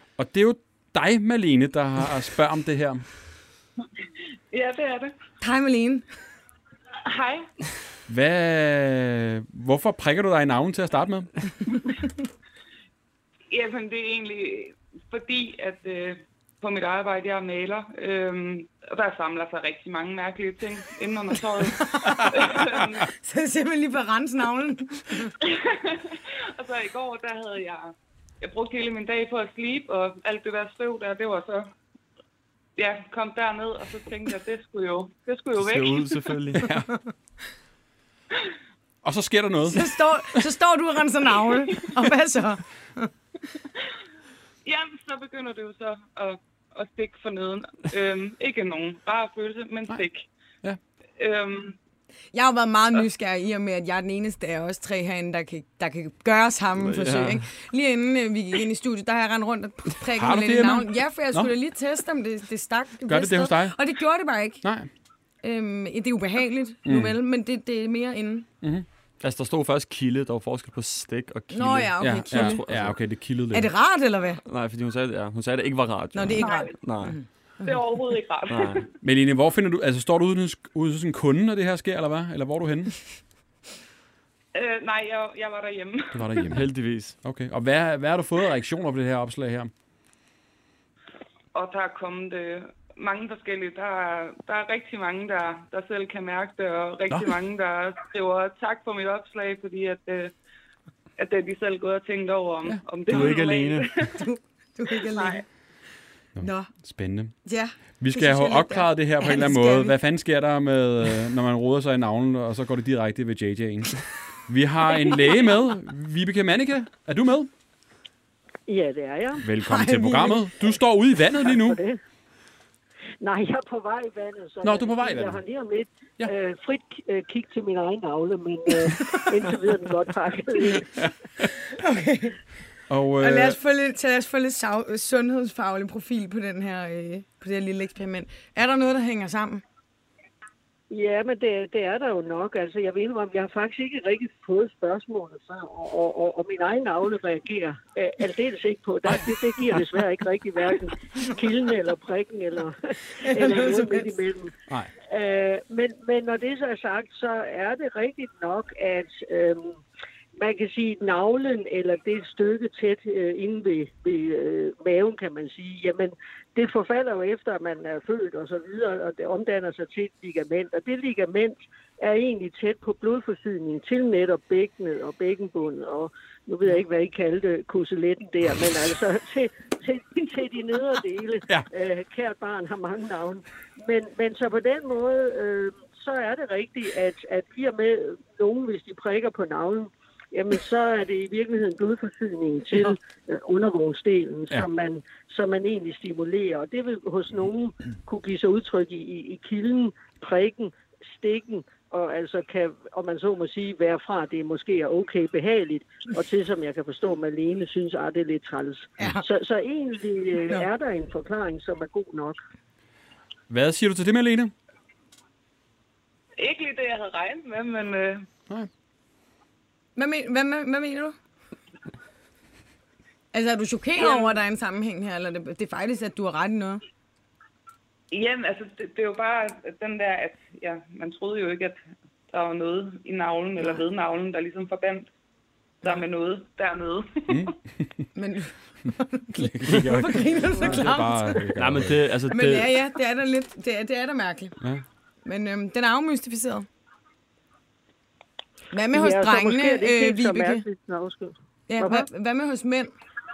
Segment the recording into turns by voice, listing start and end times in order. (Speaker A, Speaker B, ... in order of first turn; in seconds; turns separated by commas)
Speaker A: 0.2-3.0, Speaker B: 4.5-5.1, Speaker C: 5.4-6.1, Speaker B: 7.0-7.5, Speaker A: 8.1-11.3, Speaker B: 13.5-23.1, Speaker C: 21.6-25.3, Speaker B: 25.4-31.7, Speaker B: 32.8-36.6, Speaker D: 35.6-36.6, Speaker A: 36.6-36.9, Speaker A: 39.0-40.5, Speaker C: 39.7-43.1, Speaker B: 44.6-50.3, Speaker B: 51.2-51.8, Speaker C: 52.3-64.6, Speaker D: 56.8-57.4, Speaker A: 60.1-61.5, Speaker A: 63.1-63.8, Speaker A: 64.6-64.9, Speaker C: 65.4-68.5, Speaker A: 66.8-67.2, Speaker D: 69.2-73.0, Speaker C: 71.5-72.6, Speaker A: 72.0-73.7, Speaker C: 73.5-74.4, Speaker D: 74.5-77.2, Speaker C: 76.1-77.8, Speaker B: 76.4-76.8, Speaker B: 77.6-78.9, Speaker D: 78.5-78.9, Speaker A: 79.0-83.0, Speaker B: 84.5-86.5, Speaker A: 86.1-86.6, Speaker D: 86.5-87.2, Speaker A: 87.2-89.7, Speaker B: 91.5-100.3, Speaker B: 101.2-104.1, Speaker D: 103.1-103.9, Speaker C: 104.1-105.4, Speaker B: 104.9-105.5, Speaker A: 106.4-107.3, Speaker C: 106.4-106.7, Speaker C: 107.5-110.0, Speaker A: 108.0-117.5, Speaker E: 118.7-119.5, Speaker A: 119.4-121.8, Speaker C: 119.6-120.5, Speaker E: 121.4-122.0, Speaker E: 123.2-131.0, Speaker A: 124.6-125.4, Speaker C: 128.8-129.2, Speaker C: 131.7-132.3, Speaker A: 132.9-133.6, Speaker C: 133.2-139.6, Speaker E: 140.9-159.8, Speaker C: 153.3-154.1, Speaker E: 160.4-212.4, Speaker A: 213.5-214.5, Speaker B: 216.4-218.3, Speaker C: 220.0-221.2, Speaker C: 223.3-226.8, Speaker B: 224.0-224.4, Speaker B: 228.1-235.1, Speaker B: 235.8-237.5, Speaker A: 237.3-237.6, Speaker C: 238.2-241.6, Speaker A: 239.4-242.0, Speaker D: 239.7-239.9, Speaker D: 241.6-242.7, Speaker C: 242.3-244.6, Speaker C: 245.2-246.7, Speaker C: 248.7-250.7, Speaker E: 248.9-252.1, Speaker C: 251.7-252.9